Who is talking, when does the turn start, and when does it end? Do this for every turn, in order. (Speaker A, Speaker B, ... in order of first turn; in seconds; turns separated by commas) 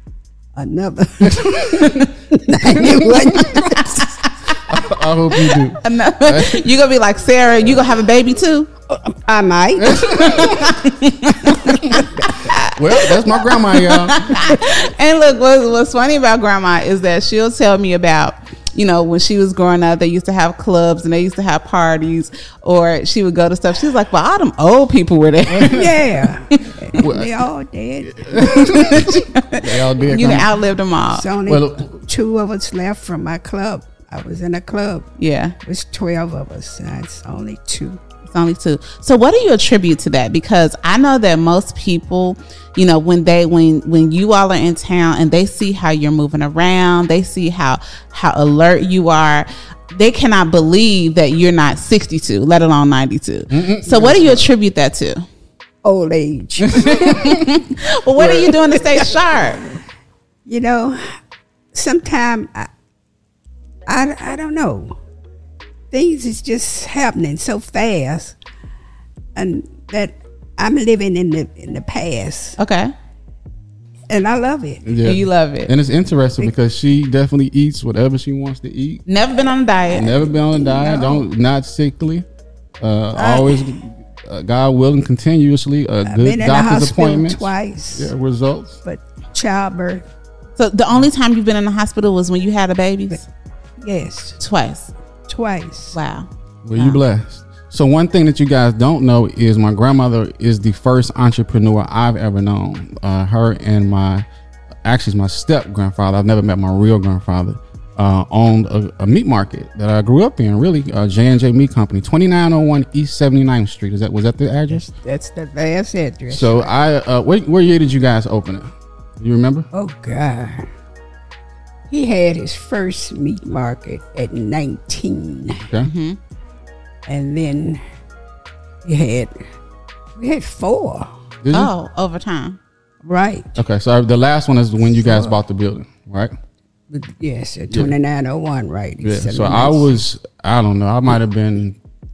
Speaker A: 0.5-4.1, Speaker B: 1.3-2.0, Speaker B: 2.8-3.7, Speaker C: 3.8-4.6, Speaker B: 4.6-6.7, Speaker C: 5.3-8.7, Speaker A: 8.9-10.5, Speaker B: 9.8-10.8, Speaker C: 10.0-26.8, Speaker A: 11.7-12.5, Speaker B: 12.7-14.6, Speaker B: 25.5-25.9, Speaker A: 25.6-29.2, Speaker B: 27.0-27.3, Speaker B: 28.0-30.5, Speaker C: 28.6-31.3, Speaker A: 31.1-35.1, Speaker B: 31.5-31.9, Speaker C: 35.2-35.5, Speaker A: 35.6-38.0, Speaker C: 38.3-55.2, Speaker B: 53.5-54.5, Speaker A: 55.8-57.4, Speaker B: 56.6-57.4, Speaker C: 56.8-59.7, Speaker A: 58.1-59.1, Speaker A: 60.5-61.1, Speaker A: 61.7-62.7, Speaker A: 63.9-65.0, Speaker A: 65.9-68.4, Speaker A: 69.3-72.6, Speaker C: 72.6-72.9, Speaker A: 74.1-74.8, Speaker B: 74.8-79.0, Speaker C: 75.0-75.7, Speaker C: 79.0-80.2, Speaker B: 79.9-82.2, Speaker A: 80.5-81.2, Speaker B: 82.8-88.8, Speaker A: 83.1-83.7, Speaker A: 86.0-88.1, Speaker A: 88.8-90.0, Speaker C: 90.6-93.2, Speaker A: 93.8-94.4, Speaker C: 94.4-94.9, Speaker A: 95.3-96.0, Speaker C: 95.9-97.0, Speaker B: 96.6-104.2, Speaker B: 104.8-114.8, Speaker A: 114.7-116.7, Speaker B: 116.3-119.7, Speaker A: 119.7-120.7, Speaker A: 121.9-125.7, Speaker B: 125.6-125.9, Speaker C: 125.8-126.2, Speaker A: 127.0-127.8, Speaker A: 128.8-129.4, Speaker A: 130.2-131.1, Speaker B: 131.4-131.7, Speaker C: 131.5-132.6, Speaker A: 133.0-133.6, Speaker B: 133.6-136.3, Speaker A: 134.9-135.4, Speaker A: 136.9-140.0, Speaker B: 139.0-141.8